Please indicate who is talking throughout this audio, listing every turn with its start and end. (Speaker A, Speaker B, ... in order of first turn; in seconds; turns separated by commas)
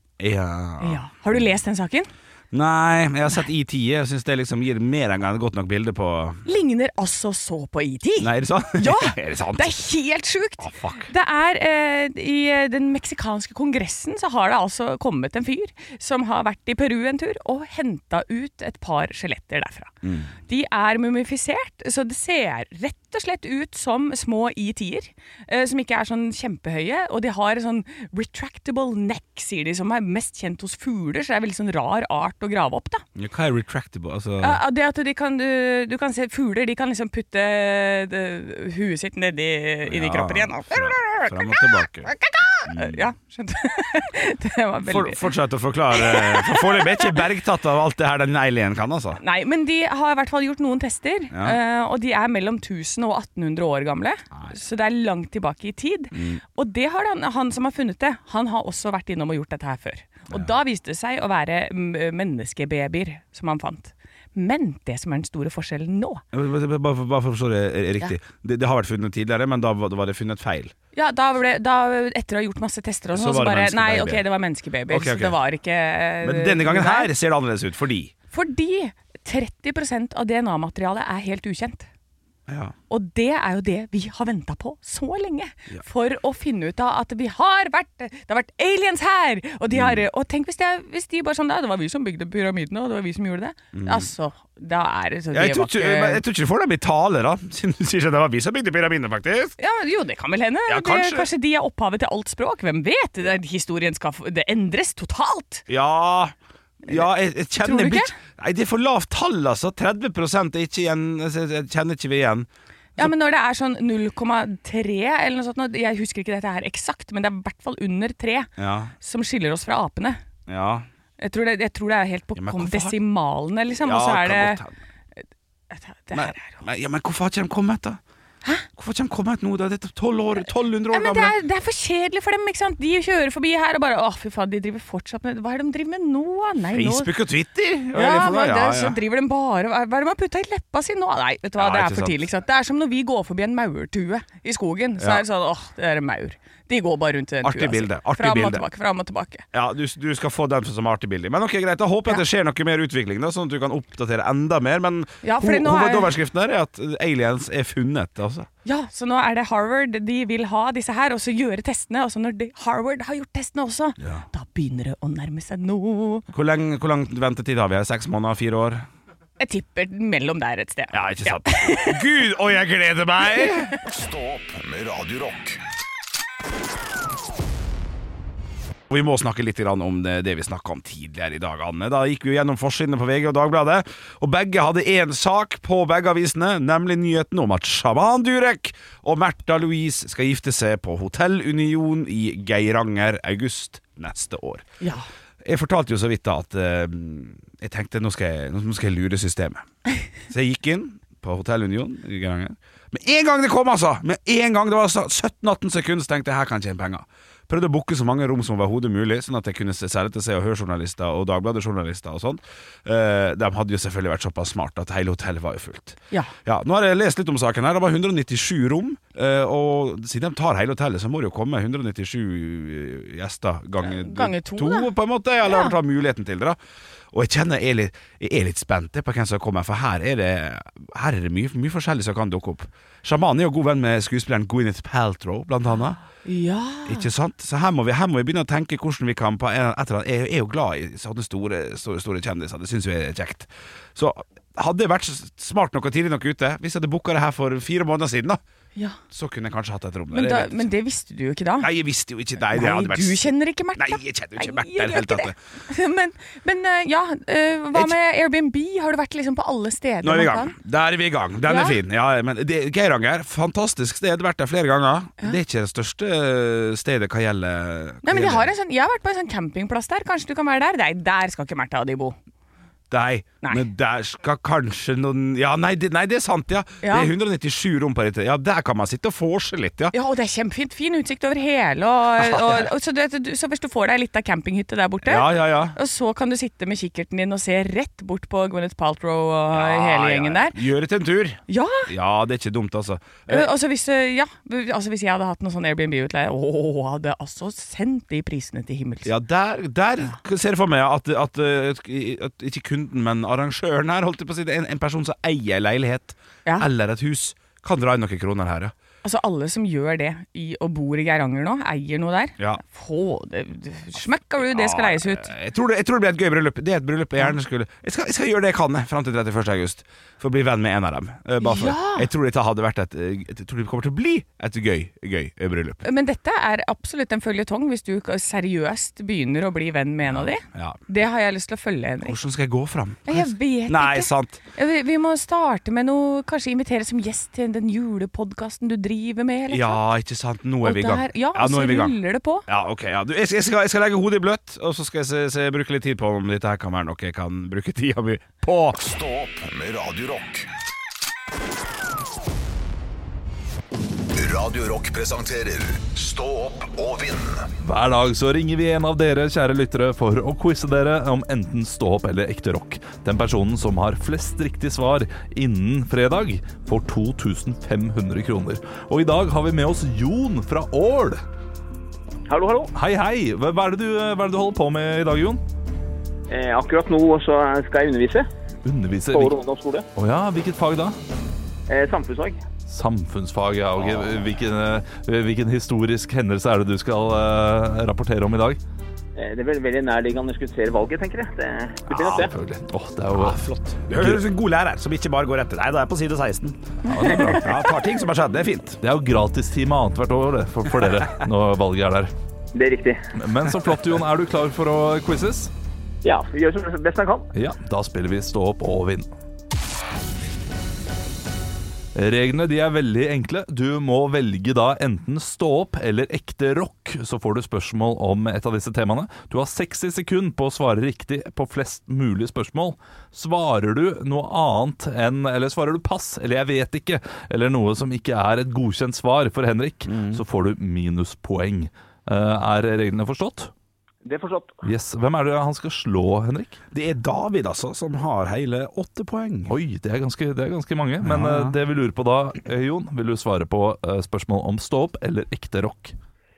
Speaker A: 0.2-1.0, Speaker B: 0.8-2.1, Speaker A: 2.5-6.5, Speaker B: 6.5-19.9, Speaker A: 8.2-9.9, Speaker A: 10.6-11.1, Speaker A: 20.0-20.3, Speaker B: 20.5-33.0, Speaker A: 33.2-34.6, Speaker B: 34.4-45.3, Speaker A: 39.9-42.1, Speaker A: 42.7-43.1, Speaker A: 44.9-49.2, Speaker B: 45.9-47.2, Speaker B: 49.2-66.2, Speaker A: 51.3-51.6, Speaker A: 56.1-56.4, Speaker A: 66.3-70.7, Speaker B: 71.0-77.1, Speaker A: 73.1-74.2, Speaker A: 74.9-75.4, Speaker A: 76.2-78.1, Speaker B: 78.3-81.9, Speaker A: 82.5-82.8, Speaker B: 82.9-96.2, Speaker A: 89.7-90.0, Speaker A: 93.7-94.1, Speaker A: 95.3-99.6, Speaker B: 99.6-105.7, Speaker A: 100.7-101.3, Speaker A: 105.7-113.1, Speaker B: 107.6-108.1, Speaker B: 113.0-120.2, Speaker A: 118.6-118.9, Speaker A: 120.5-120.9, Speaker B: 121.2-124.6, Speaker A: 122.4-123.0, Speaker A: 123.8-124.7, Speaker B: 125.7-126.6, Speaker A: 126.1-128.0, Speaker A: 128.7-131.3, Speaker B: 130.9-137.1, Speaker A: 136.7-139.0, Speaker B: 137.9-149.5, Speaker A: 141.6-142.3, Speaker A: 145.0-145.2, Speaker A: 147.4-148.7, Speaker A: 149.5-158.5, Speaker B: 155.2-156.1, Speaker B: 158.7-166.3, Speaker A: 166.3-168.8, Speaker B: 169.4-172.1, Speaker A: 170.9-173.8, Speaker C: 173.8-175.6, Speaker A: 178.9-194.7, Speaker B: 194.8-195.1, Speaker A: 195.4-199.6, Speaker A: 200.3-226.6, Speaker B: 223.8-224.9, Speaker B: 225.4-225.7, Speaker A: 227.1-236.0, Speaker B: 236.2-237.1, Speaker A: 236.8-248.4, Speaker A: 249.1-250.7, Speaker B: 250.1-251.7, Speaker A: 251.6-255.4, Speaker B: 252.5-260.6, Speaker A: 260.0-268.5, Speaker B: 261.5-261.8, Speaker B: 268.0-272.2, Speaker A: 272.9-279.9, Speaker B: 276.8-277.1, Speaker B: 279.9-290.6, Speaker A: 282.2-282.7, Speaker A: 285.1-285.8, Speaker A: 289.5-293.5, Speaker B: 291.5-291.9, Speaker B: 293.3-299.1, Speaker A: 299.1-308.7, Speaker B: 309.0-315.3, Speaker A: 314.5-325.8, Speaker B: 321.4-322.1, Speaker B: 325.8-332.2, Speaker A: 330.1-330.8, Speaker A: 332.0-334.4, Speaker B: 333.1-339.8, Speaker A: 339.5-348.8, Speaker B: 340.6-342.5, Speaker C: 348.8-350.5, Speaker C: 354.2-357.5, Speaker D: 357.6-371.2, Speaker E: 372.3-372.7, Speaker D: 372.8-375.4, Speaker E: 376.3-378.3, Speaker D: 378.6-379.4, Speaker E: 379.1-379.9, Speaker D: 380.0-381.0, Speaker E: 381.7-382.4, Speaker D: 382.7-388.6, Speaker A: 383.8-384.1, Speaker E: 389.2-392.3, Speaker D: 392.0-394.2, Speaker A: 393.1-396.6, Speaker D: 396.9-397.5, Speaker A: 397.4-398.8, Speaker D: 398.8-402.1, Speaker E: 402.5-403.0, Speaker D: 403.2-405.5, Speaker E: 406.0-407.3, Speaker D: 407.4-409.1, Speaker D: 411.9-433.5, Speaker A: 429.9-430.2, Speaker E: 434.0-434.6, Speaker D: 434.6-436.6, Speaker A: 436.7-439.6, Speaker D: 439.5-445.9, Speaker A: 441.0-441.6